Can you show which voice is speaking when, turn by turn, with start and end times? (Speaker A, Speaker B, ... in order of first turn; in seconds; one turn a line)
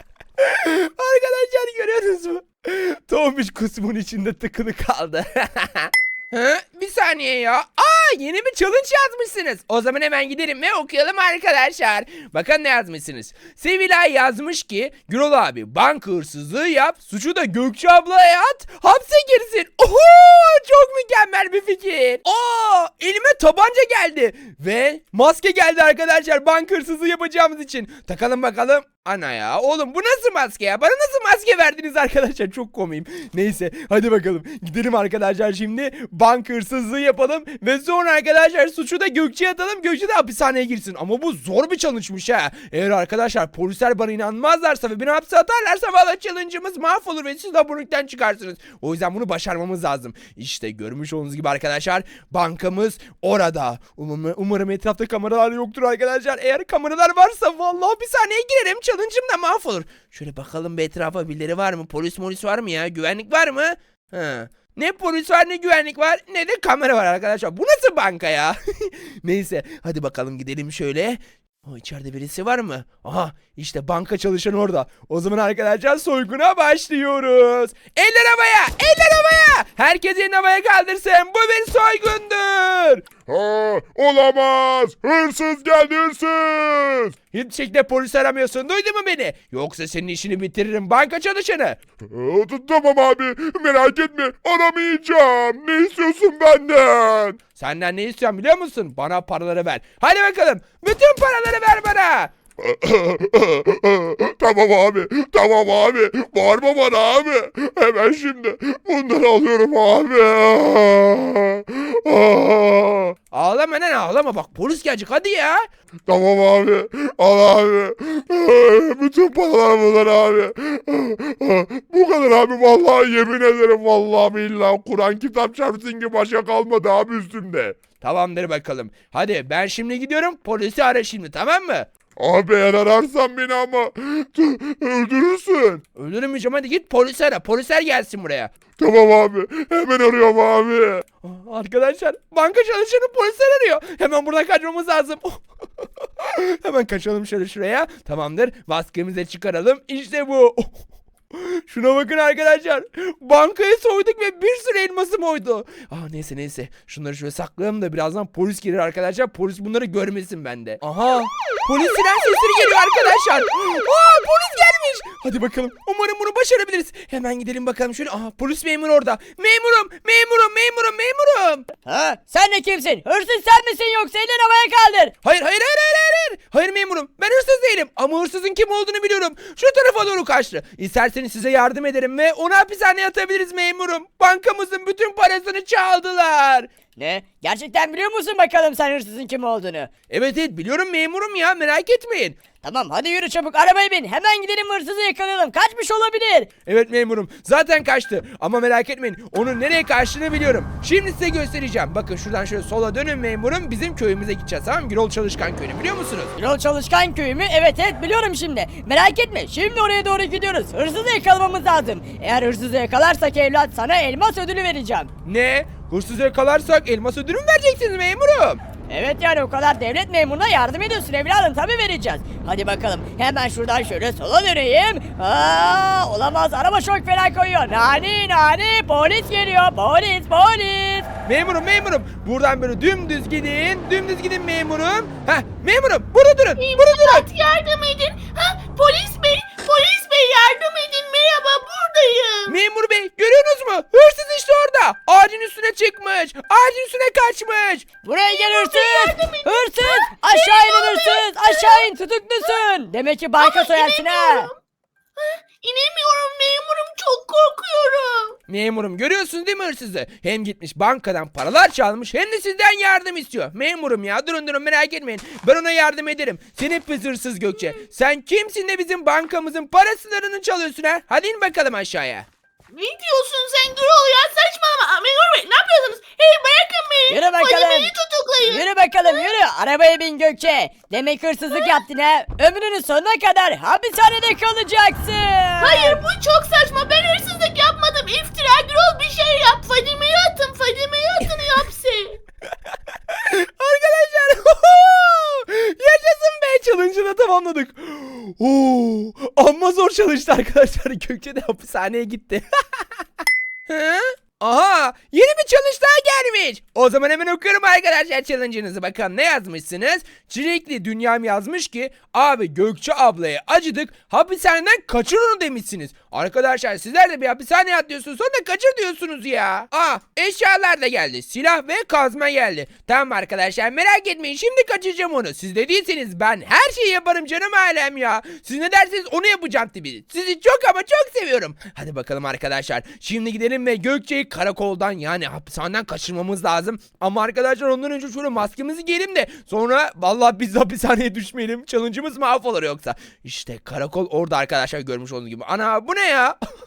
Speaker A: 0.4-83.0
Speaker B: 83.3-87.1
Speaker A: 87.3-91.8
Speaker B: 92.1-97.4
Speaker A: 97.5-102.3
Speaker B: 102.6-113.1
Speaker A: 113.3-115.7
Speaker B: 116.1-127.8
Speaker A: 128.0-131.9
Speaker B: 132.2-135.8
Speaker A: 135.9-138.5
Speaker B: 138.8-141.0
Speaker A: 141.2-145.4
Speaker A: 146.2-171.7
Speaker C: 171.8-175.1
Speaker A: 175.2-186.7
Speaker C: 186.9-189.9
Speaker A: 190.1-192.4
Speaker C: 192.6-196.5
Speaker A: 196.7-206.3
Speaker C: 206.4-215.1
Speaker A: 215.2-218.6
Speaker C: 218.9-231.1
Speaker A: 231.2-237.2
Speaker D: 236.6-242.6
Speaker A: 242.5-247.8
Speaker C: 248.0-254.5
Speaker D: 248.2-252.6
Speaker D: 253.4-254.5
Speaker D: 255.2-258.3
Speaker A: 258.5-272.3
Speaker D: 272.7-279.4
Speaker C: 277.1-277.9
Speaker C: 278.4-286.0
Speaker D: 281.5-281.8
Speaker D: 285.6-292.2
Speaker A: 293.1-303.0
Speaker A: 303.7-346.4